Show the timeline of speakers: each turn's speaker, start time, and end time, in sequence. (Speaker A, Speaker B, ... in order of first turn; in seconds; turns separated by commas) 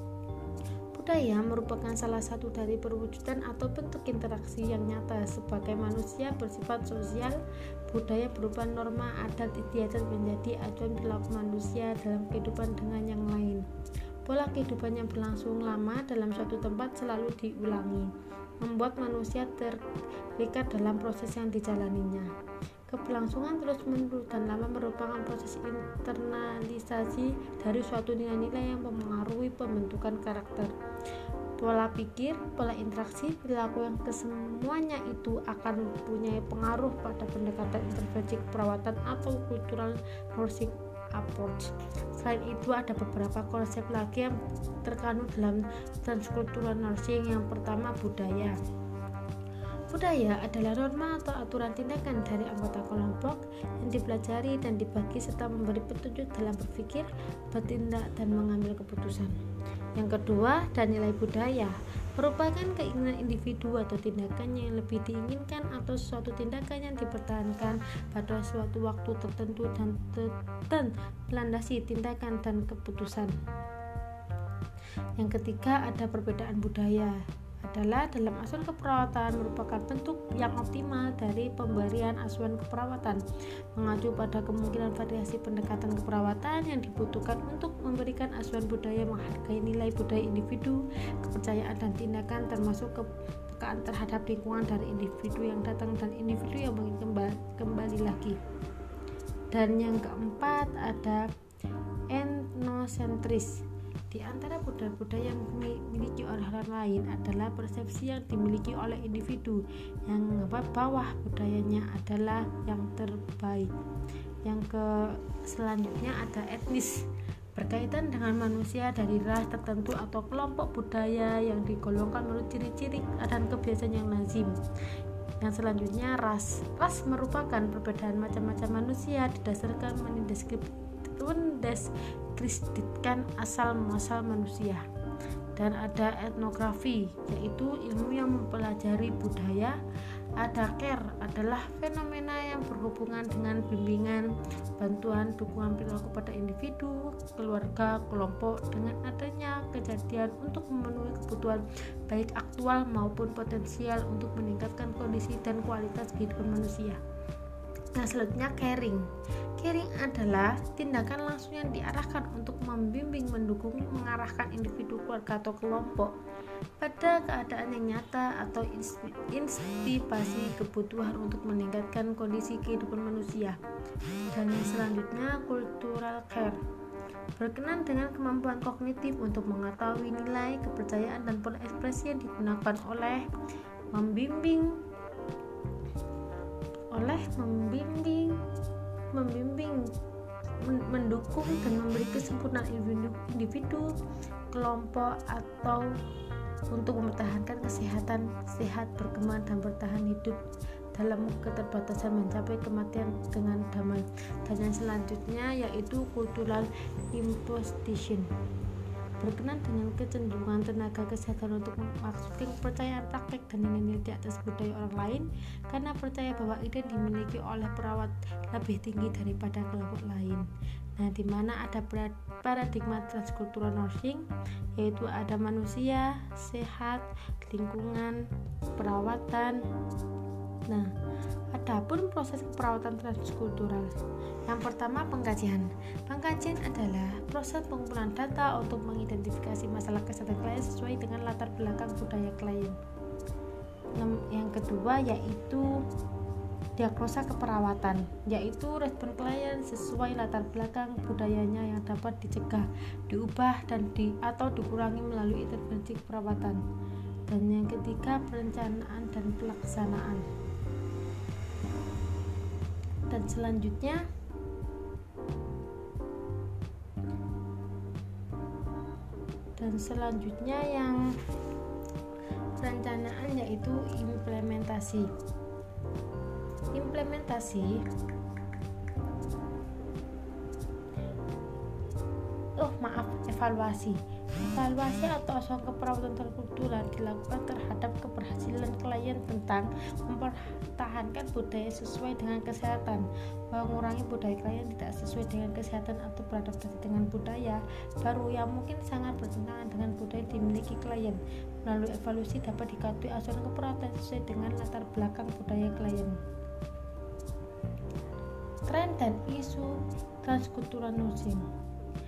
Speaker A: 0.9-13.6, Speaker A: 14.3-19.8, Speaker A: 20.4-22.3, Speaker A: 22.9-30.7, Speaker A: 31.6-48.5, Speaker A: 49.9-59.3, Speaker A: 60.0-73.3, Speaker A: 75.2-83.2, Speaker A: 83.7-98.4, Speaker A: 99.5-101.3, Speaker A: 102.1-113.7, Speaker A: 114.4-124.6, Speaker A: 125.4-134.8, Speaker A: 135.6-139.8, Speaker A: 140.4-157.0, Speaker A: 158.0-159.0, Speaker A: 159.6-166.1, Speaker A: 166.8-173.6, Speaker A: 174.3-176.6, Speaker A: 177.4-183.2, Speaker A: 183.9-184.8, Speaker A: 186.9-188.4, Speaker A: 189.1-189.8, Speaker A: 190.6-193.9, Speaker A: 194.5-195.9, Speaker A: 196.7-200.4, Speaker A: 200.9-208.3, Speaker A: 209.2-220.4, Speaker A: 221.0-229.6, Speaker A: 231.5-233.9, Speaker A: 234.4-242.8, Speaker A: 244.0-245.8, Speaker A: 246.8-256.6, Speaker A: 257.3-260.2, Speaker A: 263.1-264.0, Speaker A: 269.6-271.0, Speaker A: 272.6-275.1, Speaker A: 276.7-277.8, Speaker A: 282.6-306.2, Speaker A: 308.7-311.4